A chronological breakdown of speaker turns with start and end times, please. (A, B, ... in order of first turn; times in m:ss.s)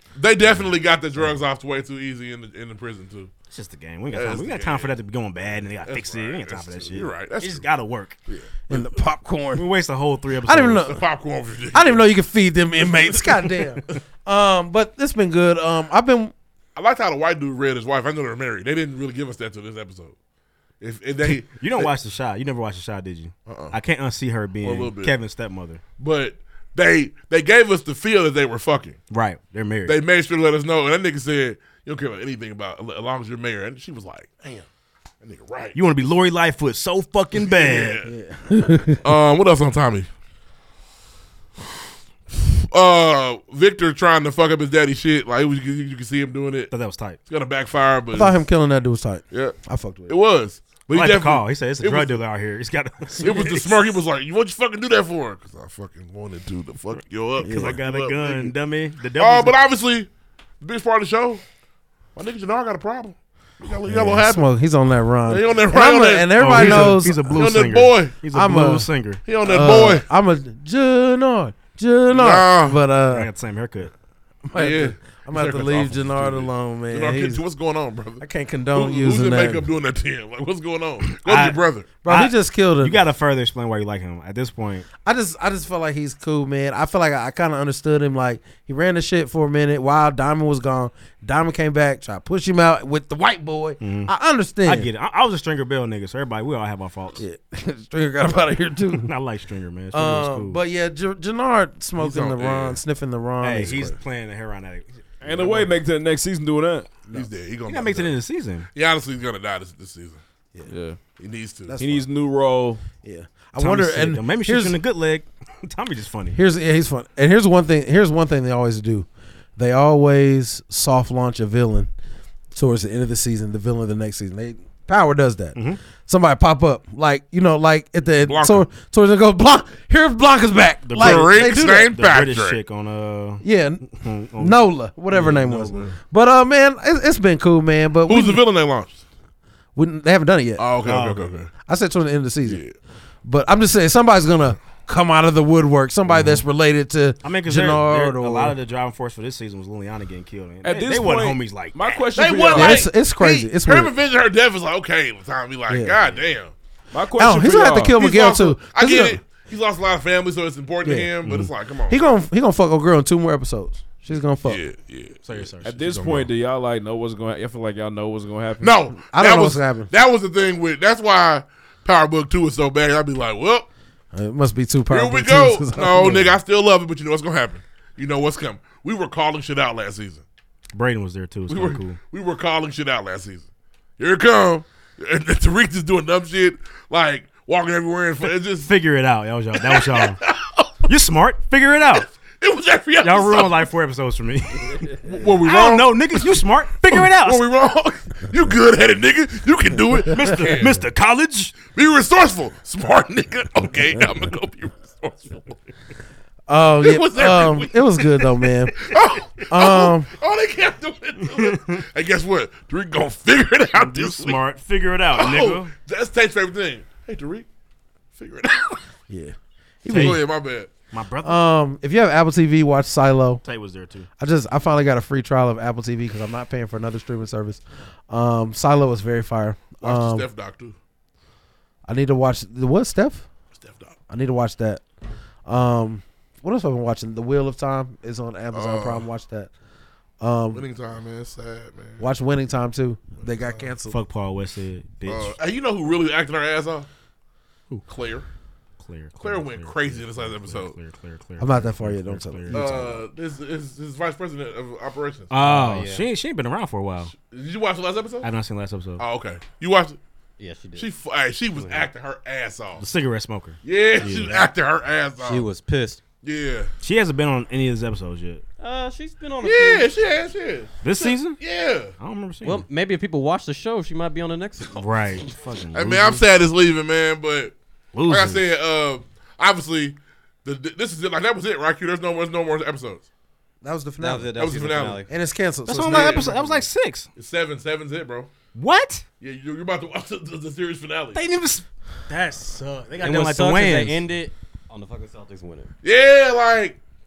0:00.2-0:03.3 A
0:00.4-0:01.3 B
0:03.5-0:08.2 B
0:04.1-0:07.7 A
0:08.3-0:08.8 A
0:08.7-0:09.7 C
0:09.5-0:11.0 B
0:10.4-0:11.0 C
0:10.9-0:12.1 A
0:11.7-0:16.3 C
0:16.8-0:20.1 A
0:20.8-0:21.9 A
0:21.2-0:25.8 B
0:23.4-0:23.8 A
0:24.6-0:25.2 A
0:26.0-0:29.0 A
0:29.1-0:30.0 B
0:29.8-0:34.6 A
0:35.2-0:35.8 A
0:35.7-0:38.0 B
0:37.4-0:38.1 A
0:38.0-0:39.0 C
0:39.0-0:40.1 A
0:42.4-0:46.7 A
0:46.7-0:47.2 B
0:47.2-0:48.4 A
0:48.1-0:50.1 C
0:49.3-0:49.6 A
0:50.1-0:52.2 A
0:50.9-0:53.8 B
0:53.2-0:58.5 A
0:57.4-0:59.6 B
0:57.4-0:57.8 C
0:59.2-1:00.1 A
1:00.6-1:01.4 A
1:02.2-1:04.4 A
1:03.9-1:07.4 C
1:05.3-1:08.2 A
1:06.3-1:09.2 B
1:08.3-1:13.3 C
1:09.2-1:10.0 A
1:12.1-1:12.8 A
1:13.0-1:13.9 B
1:14.5-1:17.4 C
1:14.6-1:21.9 A
1:18.2-1:19.7 C
1:21.0-1:24.9 B
1:22.0-1:23.0 C
1:25.0-1:34.9 C
1:33.8-1:37.2 B
1:37.2-1:39.1 C
1:38.9-1:40.6 B
1:39.9-1:43.9 C
1:42.0-1:42.8 A
1:43.4-1:45.7 B
1:45.2-1:46.9 D
1:47.1-1:48.1 A
1:47.6-1:48.7 B
1:48.7-1:50.2 A
1:50.7-1:51.0 D
1:51.2-1:51.7 A
1:51.7-1:52.0 C
1:51.8-1:52.8 D
1:53.0-1:54.8 C
1:53.6-1:56.4 B
1:56.3-2:01.9 C
2:02.5-2:11.9 C
2:08.2-2:08.7 A
2:10.8-2:15.9 B
2:10.9-2:12.6 A
2:13.4-2:13.8 C
2:14.4-2:18.4 C
2:18.1-2:19.0 A
2:19.8-2:20.7 C
2:20.6-2:21.5 A
2:20.8-2:21.4 B
2:21.6-2:22.6 C
2:22.4-2:22.7 A
2:23.2-2:28.6 C
2:26.1-2:26.4 B
2:27.2-2:32.1 B
2:30.6-2:32.8 D
2:32.1-2:36.5 A
2:32.5-2:33.9 C
2:35.7-2:36.0 C
2:36.9-2:38.0 D
2:37.2-2:39.2 C
2:38.0-2:42.0 A
2:40.8-2:41.2 C
2:41.2-2:41.5 B
2:41.9-2:44.6 C
2:44.4-2:45.4 A
2:45.2-2:46.3 B
2:45.6-2:48.8 D
2:48.6-2:53.7 A
2:49.1-2:49.9 C
2:54.1-2:56.4 C
2:54.9-3:00.2 A
3:00.7-3:02.0 B
3:01.5-3:03.4 A
3:04.0-3:08.7 A
3:08.5-3:10.2 B
3:09.6-3:10.7 A
3:10.9-3:12.1 B
3:12.4-3:13.7 A
3:13.0-3:17.5 B
3:15.0-3:20.8 A
3:20.1-3:21.6 B
3:21.6-3:25.5 A
3:26.5-3:28.8 C
3:26.8-3:34.4 A
3:29.5-3:30.1 C
3:31.2-3:31.8 B
3:33.7-3:35.8 B
3:35.1-3:37.5 A
3:38.1-3:38.8 A
3:39.1-3:40.2 C
3:39.9-3:40.2 B
3:39.9-3:40.7 A
3:40.9-3:41.5 B
3:41.2-3:43.4 C
3:43.4-3:44.1 B
3:44.2-3:50.3 C
3:49.8-3:50.8 A
3:51.8-3:53.3 C
3:53.5-3:54.0 A
3:54.1-3:54.8 C
3:55.4-3:59.5 C
3:58.5-3:59.1 A
4:00.2-4:00.6 C
4:00.5-4:02.0 A
4:02.0-4:04.0 C
4:03.2-4:03.7 A
4:03.8-4:05.4 B
4:05.0-4:06.9 A
4:07.9-4:08.2 A
4:08.8-4:12.9 B
4:09.2-4:10.8 A
4:11.4-4:13.0 C
4:12.5-4:15.3 A
4:15.3-4:17.1 B
4:15.4-4:16.0 E
4:17.1-4:18.3 A
4:18.2-4:19.0 B
4:19.0-4:20.0 A
4:20.4-4:20.9 E
4:20.7-4:22.8 A
4:21.6-4:21.9 E
4:22.8-4:24.5 B
4:23.6-4:25.5 A
4:25.2-4:26.0 E
4:26.2-4:26.7 A
4:26.8-4:28.4 B
4:28.6-4:29.9 E
4:29.4-4:31.9 A
4:30.8-4:31.4 B
4:32.0-4:32.6 B
4:32.4-4:34.8 E
4:34.8-4:36.3 B
4:35.7-4:43.0 A
4:37.9-4:38.4 B
4:43.6-4:44.4 C
4:44.0-4:45.1 E
4:44.3-4:45.0 A
4:45.1-4:46.6 C
4:45.6-4:47.1 B
4:45.8-4:46.4 A
4:47.1-4:48.3 A
4:48.5-4:49.0 B
4:49.2-4:51.2 A
4:51.1-4:54.0 B
4:53.0-4:55.7 E
4:55.8-4:56.8 A